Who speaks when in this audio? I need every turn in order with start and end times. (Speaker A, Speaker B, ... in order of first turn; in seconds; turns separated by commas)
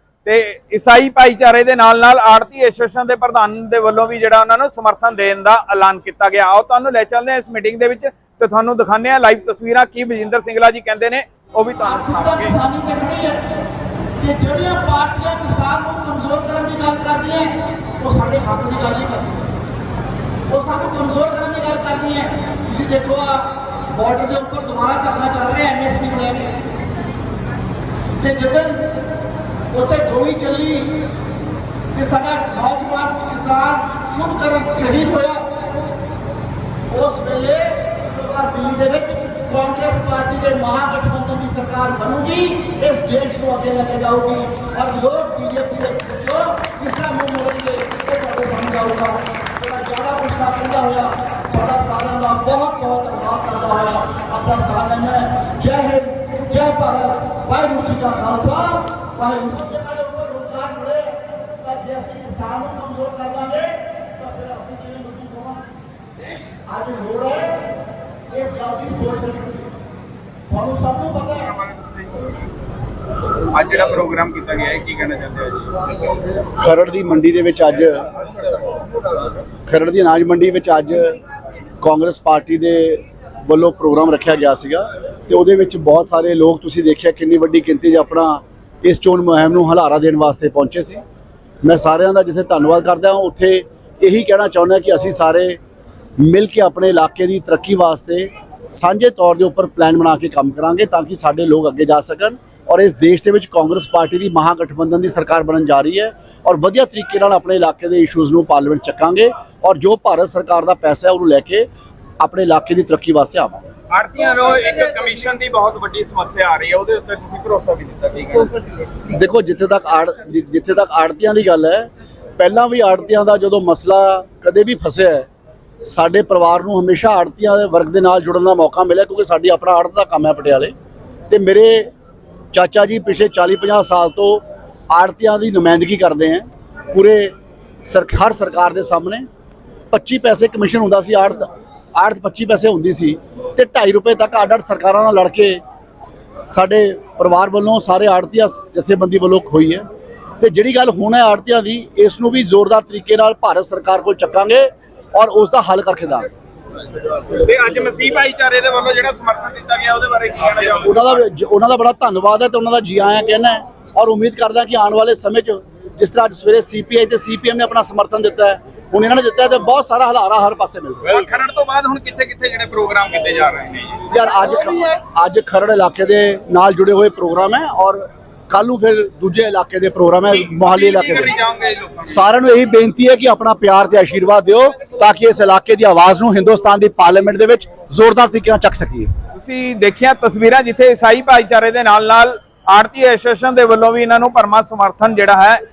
Speaker A: 0.2-12.6, Speaker B: 12.6-13.4, Speaker B: 14.2-19.4, Speaker B: 20.5-26.6, Speaker B: 28.2-29.1, Speaker B: 29.7-31.0, Speaker B: 31.9-35.5, Speaker B: 36.9-65.7, Speaker B: 66.7-67.7, Speaker B: 68.3-69.7, Speaker B: 70.5-71.4, Speaker A: 71.3-72.4, Speaker A: 73.5-75.8, Speaker C: 76.6-78.1, Speaker C: 79.7-81.2, Speaker C: 81.8-91.0, Speaker C: 91.6-95.6, Speaker C: 96.2-111.7, Speaker C: 112.2-113.6, Speaker A: 113.9-118.6, Speaker C: 119.1-125.3, Speaker C: 125.8-130.7, Speaker C: 131.3-131.9, Speaker C: 132.5-139.3, Speaker C: 139.9-145.6, Speaker C: 146.5-149.8, Speaker C: 150.4-156.3, Speaker A: 157.3-161.2, Speaker C: 160.8-171.1, Speaker A: 171.0-174.1, Speaker C: 174.1-181.3, Speaker A: 180.3-182.2, Speaker C: 182.1-189.1, Speaker A: 189.3-195.6